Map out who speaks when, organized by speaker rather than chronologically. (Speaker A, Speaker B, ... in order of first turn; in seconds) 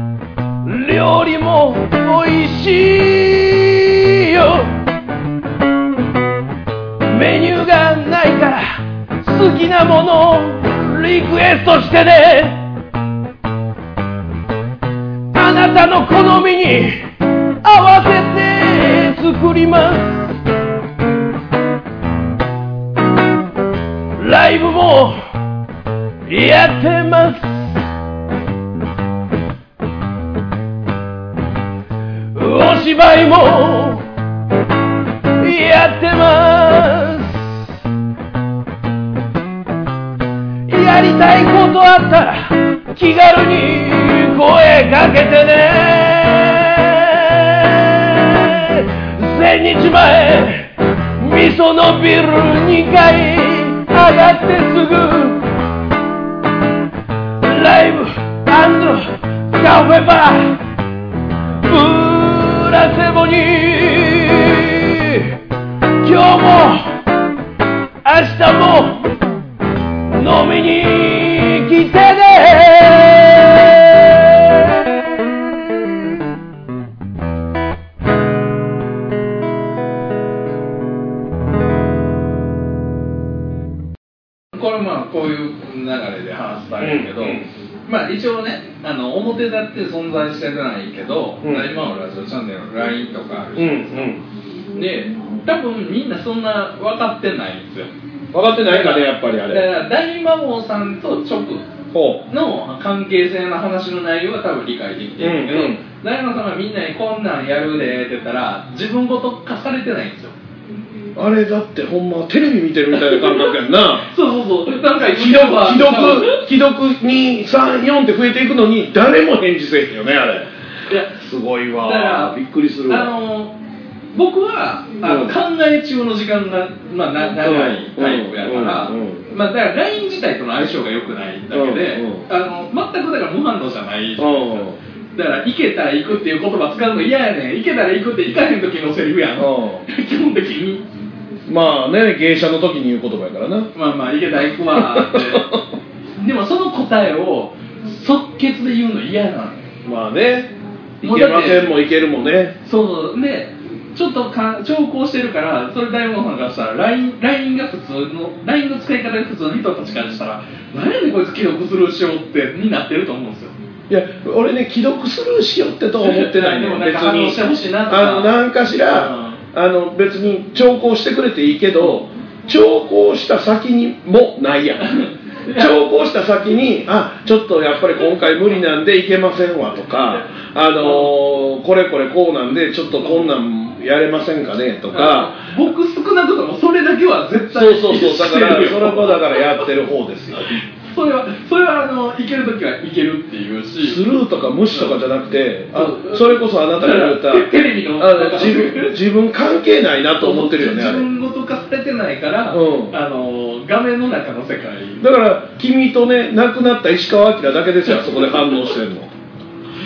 Speaker A: 0.7-4.7, 7.1-12.6, 15.3-17.1, 17.6-20.3, 24.2-25.2, 26.3-27.8, 32.3-34.0, 35.4-37.6, 40.7-48.2, 48.8-55.4, 57.4-60.6, 61.7-65.2, 66.0-66.9, 68.0-69.0, 70.1-74.3
Speaker B: 84.5-94.2, 94.8-97.9, 98.7-101.7, 102.3-110.4, 113.0-116.5, 120.9-121.2, 121.8-122.3, 122.9-123.5, 124.1-140.8, 143.7-145.5, 146.2-149.7, 151.0-151.8, 152.6-163.6, 166.0-169.4, 174.8-175.7, 180.8-181.1, 183.0-183.3, 184.9-189.6, 190.5-194.0, 194.7-195.0, 195.7-199.0, 200.2-205.1, 208.1-208.7
Speaker C: 86.8-87.5, 91.4-91.7, 93.6-94.2, 98.3-99.7, 101.9-102.2, 105.2-105.8, 111.2-114.1, 115.0-120.5, 121.2-123.1, 125.0-125.4, 127.4-129.3, 131.5-132.3, 134.2-134.8, 139.4-139.9, 141.5-143.7, 144.7-145.6, 149.8-152.6, 163.9-174.9, 175.5-185.4, 187.5-190.5, 193.8-201.1, 202.5-203.0, 205.0-209.1